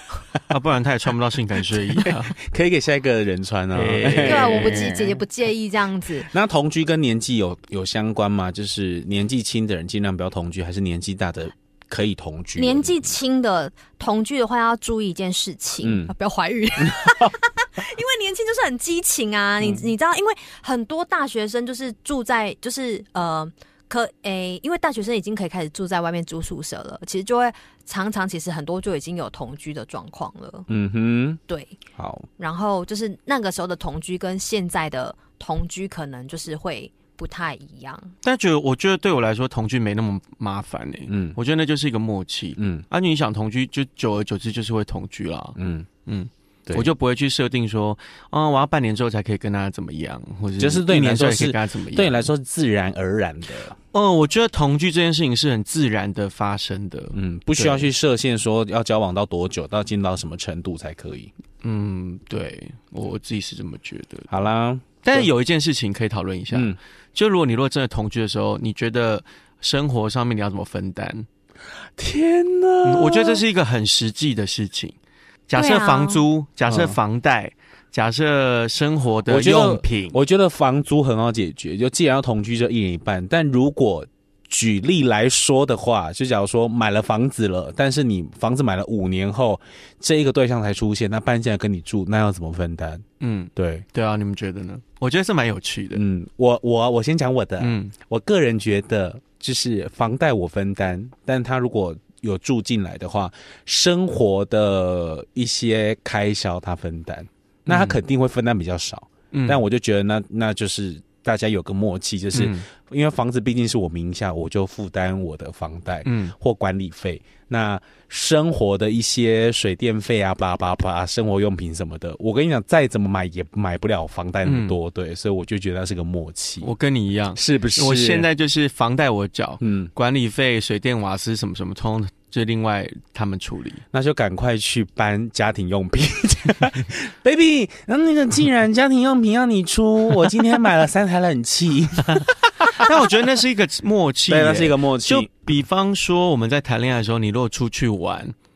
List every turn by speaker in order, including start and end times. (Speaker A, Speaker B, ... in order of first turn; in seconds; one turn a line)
Speaker A: 0.5-2.4
Speaker B: 2.0-5.0
Speaker A: 3.7-5.1
Speaker C: 4.1-6.3
Speaker B: 6.3-13.0
Speaker C: 12.6-30.7
Speaker B: 15.8-16.1
Speaker B: 16.8-17.3
Speaker B: 30.7-31.4
Speaker C: 31.5-31.8
Speaker B: 31.9-32.3
Speaker C: 32.4-38.1
Speaker A: 38.2-52.2
Speaker B: 41.1-41.4
Speaker B: 42.6-42.8
Speaker B: 45.5-45.9
Speaker B: 50.6-53.8
Speaker A: 53.9-57.9
Speaker B: 57.1-61.3
Speaker A: 61.6-64.3
Speaker B: 64.3-65.3
Speaker A: 65.0-71.2
Speaker B: 66.5-66.8
Speaker B: 72.0-73.4
Speaker A: 72.8-74.9
Speaker A: 75.5-80.2
Speaker C: 75.5-76.2
Speaker B: 76.7-77.0
Speaker B: 79.3-93.0
Speaker A: 93.2-96.0
Speaker B: 93.5-93.8
Speaker B: 95.9-126.7
Speaker A: 97.6-97.9
Speaker A: 107.7-108.0
Speaker A: 109.3-109.6
Speaker A: 112.3-112.7
Speaker A: 116.0-116.3
Speaker A: 124.4-124.7
Speaker A: 126.6-133.8
Speaker B: 127.3-128.3
Speaker B: 129.6-129.9
Speaker B: 133.9-142.8
Speaker A: 142.7-148.3
Speaker B: 144.3-145.3